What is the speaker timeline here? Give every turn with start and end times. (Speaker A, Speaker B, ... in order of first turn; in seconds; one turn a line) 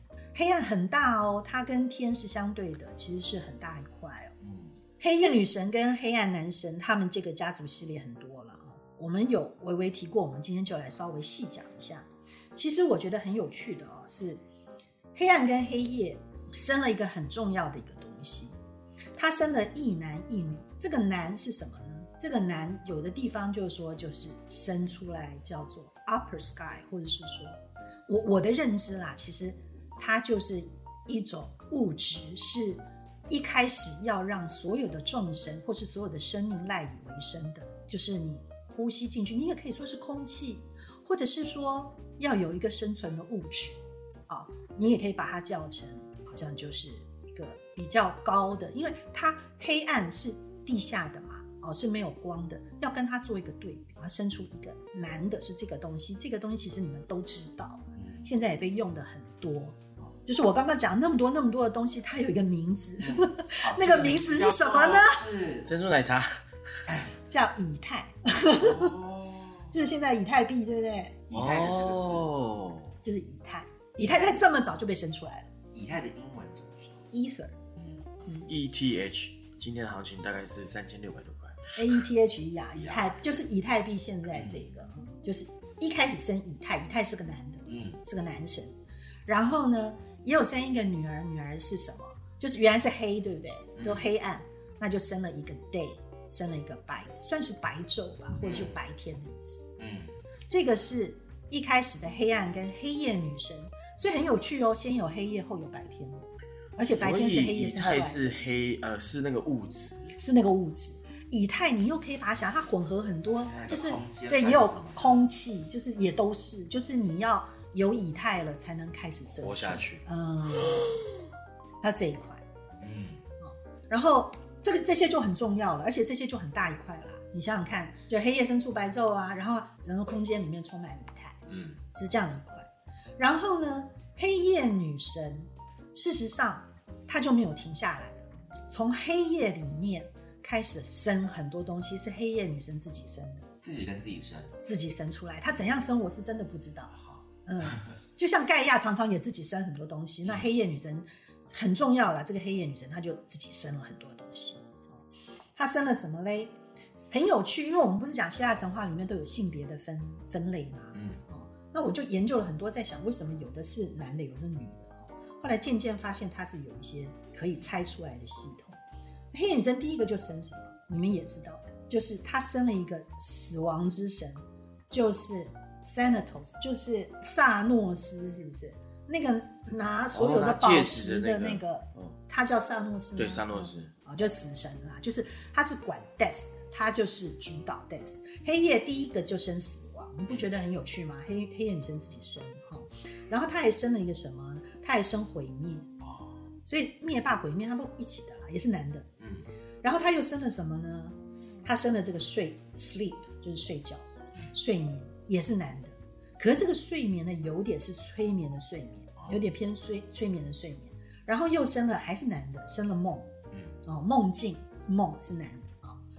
Speaker A: 0.3-4.3
Speaker B: 4.4-4.7
Speaker A: 5.0-14.4
Speaker A: 15.1-18.6
Speaker A: 19.1-65.2
Speaker B: 58.0-58.2
Speaker B: 63.0-65.7
Speaker C: 65.6-66.4
Speaker A: 67.2-68.9
Speaker B: 68.5-69.7
Speaker A: 69.7-71.2
Speaker B: 71.3-72.3
Speaker C: 71.3-72.9
Speaker A: 73.0-75.5
Speaker B: 75.7-77.0
Speaker A: 77.1-77.5
Speaker C: 78.5-81.7
Speaker A: 81.7-88.7
Speaker B: 82.8-83.2
Speaker B: 84.3-84.6
Speaker B: 87.7-88.0
Speaker A: 89.3-99.6
Speaker B: 93.8-94.0
Speaker B: 98.4-98.7
Speaker B: 99.8-100.1
Speaker A: 100.5-106.2
Speaker A: 106.8-108.3
Speaker C: 106.9-110.1
Speaker A: 110.1-121.0
Speaker B: 113.5-115.2
Speaker C: 119.4-120.0
Speaker A: 121.8-122.4
Speaker B: 122.8-123.2
Speaker A: 123.4-131.4
Speaker B: 131.5-131.8
Speaker A: 131.9-143.5
Speaker B: 143.6-144.5
Speaker A: 144.6-146.9
Speaker A: 147.4-154.9
Speaker A: 155.6-156.5
Speaker A: 157.1-168.8
Speaker B: 160.9-161.2
Speaker A: 169.3-195.9
Speaker C: 180.1-182.1
Speaker C: 183.2-183.9
Speaker B: 196.0-196.4
Speaker A: 196.7-199.1
Speaker B: 199.2-199.4
Speaker A: 199.8-213.3
Speaker A: 213.8-215.9